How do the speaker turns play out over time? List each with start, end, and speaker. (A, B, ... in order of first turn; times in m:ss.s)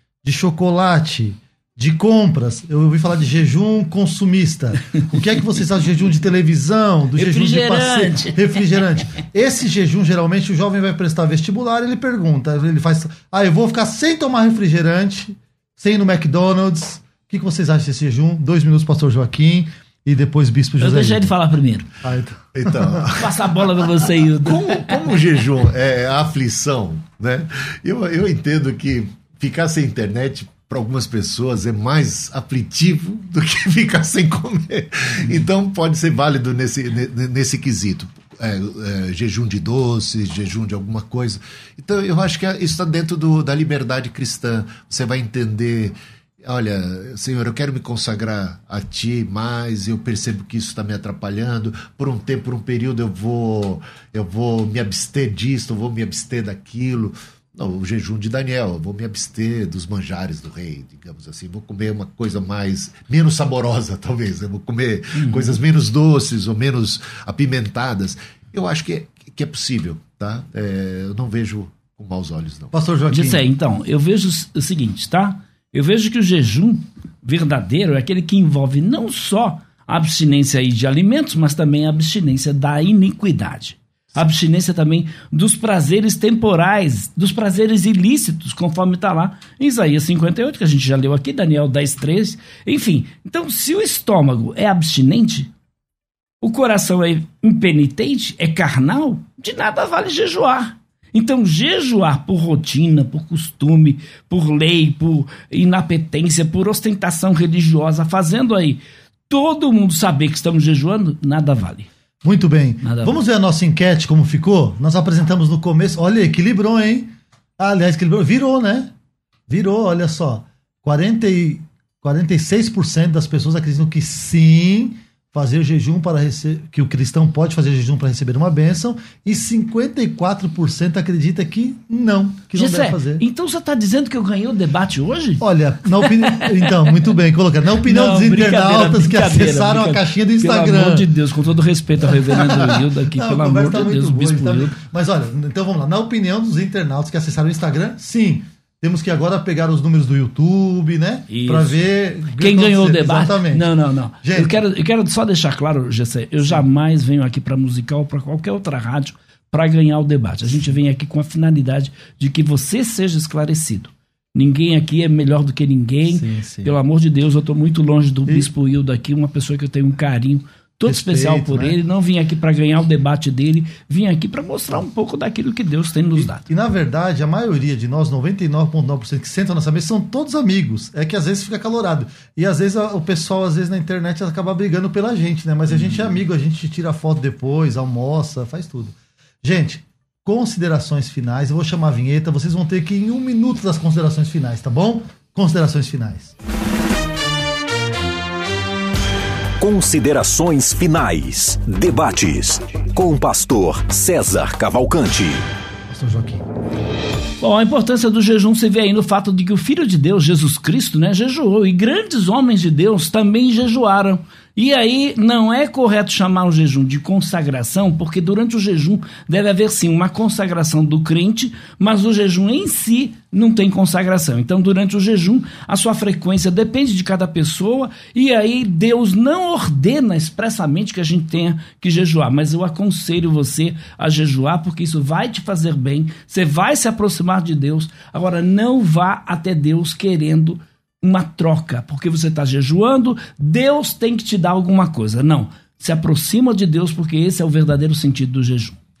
0:00.2-0:21.3 A
0:07.2-0:08.5 B
0:20.8-0:21.9 B
0:22.0-0:23.0 A
0:22.5-0:23.4 C
0:23.1-0:24.9 B
0:24.4-1:12.7 C
1:05.1-1:05.5 B
1:12.7-1:13.4 A
1:13.1-1:35.5 B
1:36.4-1:51.9 B
1:52.2-1:58.9 A
1:52.8-1:53.2 B
1:59.5-2:13.2 A
2:12.5-2:15.4 B
2:15.4-2:21.1 A
2:16.0-2:16.9 B
2:17.8-2:24.7 B
2:22.0-2:33.7 A
2:31.3-2:31.8 B
2:32.4-2:56.5 B
2:34.2-2:34.6 A
2:46.0-2:46.8 A
2:50.8-2:51.8 A
2:56.2-3:16.3 A
3:05.7-3:06.1 B
3:19.6-3:25.4 D
3:25.9-3:26.4 A
3:27.4-4:08.8 B